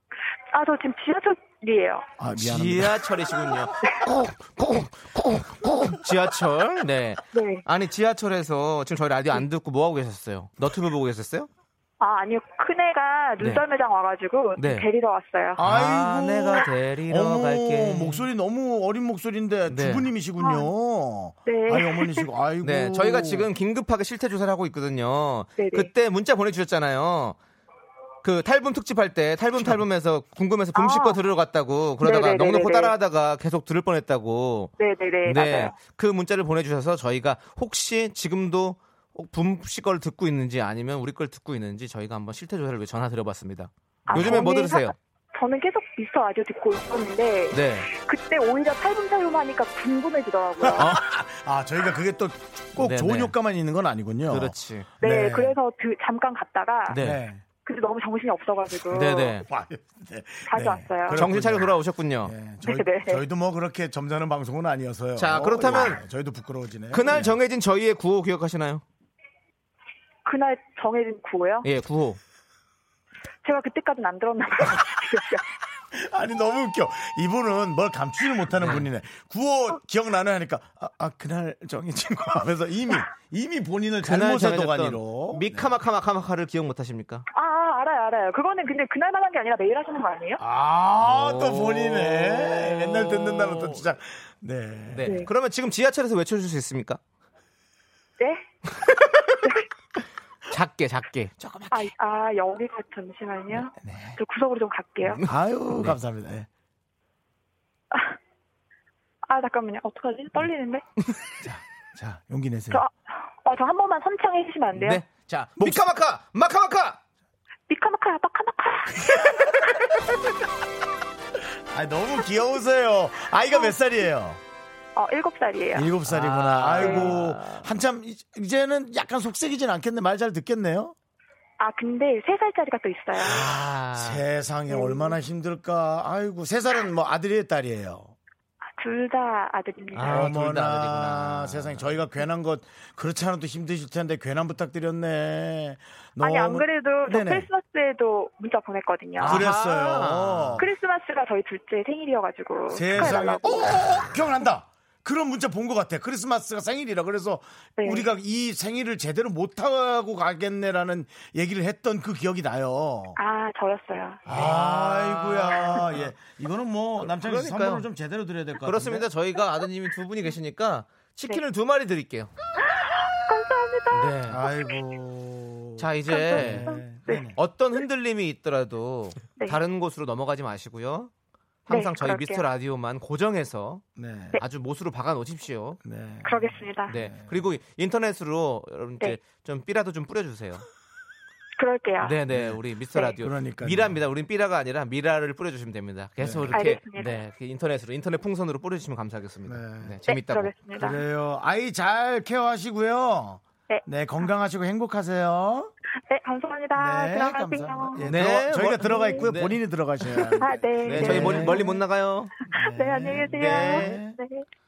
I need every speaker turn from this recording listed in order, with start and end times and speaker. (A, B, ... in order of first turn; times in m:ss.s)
0:00.5-0:02.0 A
0:02.2-0:03.1 B
0:02.4-0:03.7 C
0:03.8-0:06.0 B
0:06.0-0:11.5 C
0:07.3-0:07.6 A
0:12.0-0:15.6 A
0:13.4-0:13.6 C
0:14.6-0:14.9 C
0:15.6-0:23.5 B
0:15.6-0:18.3 C
0:19.7-0:20.1 C
0:20.4-0:20.7 A
0:21.5-0:22.3 A
0:22.6-0:27.4 C
0:25.6-0:25.9 A
0:28.2-0:34.7 C
0:30.7-0:31.2 A
0:32.0-0:32.9 A
0:34.8-0:35.8 A
0:35.2-0:45.0 C
0:44.1-0:51.0 A
0:44.1-0:44.5 B
0:47.5-0:47.9 C
0:50.6-0:55.6 B
0:50.8-0:51.0 C
0:52.8-0:53.3 C
0:54.3-0:54.9 C
0:55.0-0:57.0 A
0:56.9-0:57.2 C
0:57.0-0:57.4 B
0:57.6-0:59.4 A
0:58.9-0:59.5 C
0:59.0-1:07.4 B
1:00.5-1:01.2 A
1:01.1-1:02.3 C
1:02.6-1:03.2 A
1:05.2-1:06.0 C
1:06.9-1:08.8 C
1:10.3-1:11.7 A
1:11.6-1:12.2 C
1:13.4-1:15.4 A
1:15.9-1:25.8 B
1:18.6-1:18.9 C
1:24.0-1:27.3 C
1:27.3-1:30.4 A
1:30.4-1:35.3 B
1:31.0-1:33.9 C
1:34.9-1:37.0 C
1:35.0-1:35.3 A
1:38.2-1:38.4 A
1:38.8-1:39.4 C
1:40.5-1:41.9 C
1:41.7-1:45.2 A
1:43.8-1:44.2 B
1:45.0-1:46.0 C
1:45.3-1:46.5 B
1:47.9-1:48.2 A
1:49.3-1:50.8 A
1:51.4-1:52.8 B
1:52.7-1:55.0 A
1:54.7-1:57.0 C
1:55.6-1:55.9 B
1:57.7-1:59.6 A
2:01.7-2:04.4 B
2:05.0-2:05.9 A
2:05.7-2:11.0 B
2:06.1-2:07.7 C
2:11.6-2:13.5 A
2:13.2-2:18.2 B
2:13.2-2:14.2 C
2:14.7-2:15.2 A
2:18.8-2:20.2 A
2:19.9-2:22.0 C
2:20.0-2:27.5 B
2:26.2-2:29.5 A
2:29.2-2:30.7 C
2:29.2-2:30.7 B
2:30.6-2:34.1 A
2:32.7-2:43.2 B
2:32.9-2:33.3 C
2:37.8-2:38.1 A
2:43.2-2:44.2 A
2:44.2-2:49.1 B
2:44.3-2:46.1 C
2:47.0-2:47.9 C
2:48.6-2:52.3 C
2:52.8-2:54.6 A
2:53.9-2:54.4 C
2:54.3-2:57.4 B
2:55.8-3:01.1 C
2:56.1-2:57.3 A
3:01.7-3:03.8 C
3:01.7-3:02.4 A
3:04.0-3:04.4 B
3:04.4-3:05.8 C
3:05.8-3:07.4 B
3:06.2-3:06.9 A
3:06.9-3:10.6 C
3:11.6-3:12.2 A
3:12.0-3:20.6 C
3:12.3-3:12.6 B
3:13.2-3:14.0 B
3:16.2-3:16.6 B
3:16.5-3:17.2 A
3:19.5-3:20.0 B
3:20.1-3:21.0 A
3:20.7-3:25.7 B
3:26.1-3:28.2 A
3:26.8-3:31.8 B
3:28.0-3:32.4 C
3:28.8-3:29.3 A
3:30.1-3:31.8 A
3:32.4-3:34.4 A
3:32.4-3:34.2 B
3:33.2-3:34.0 C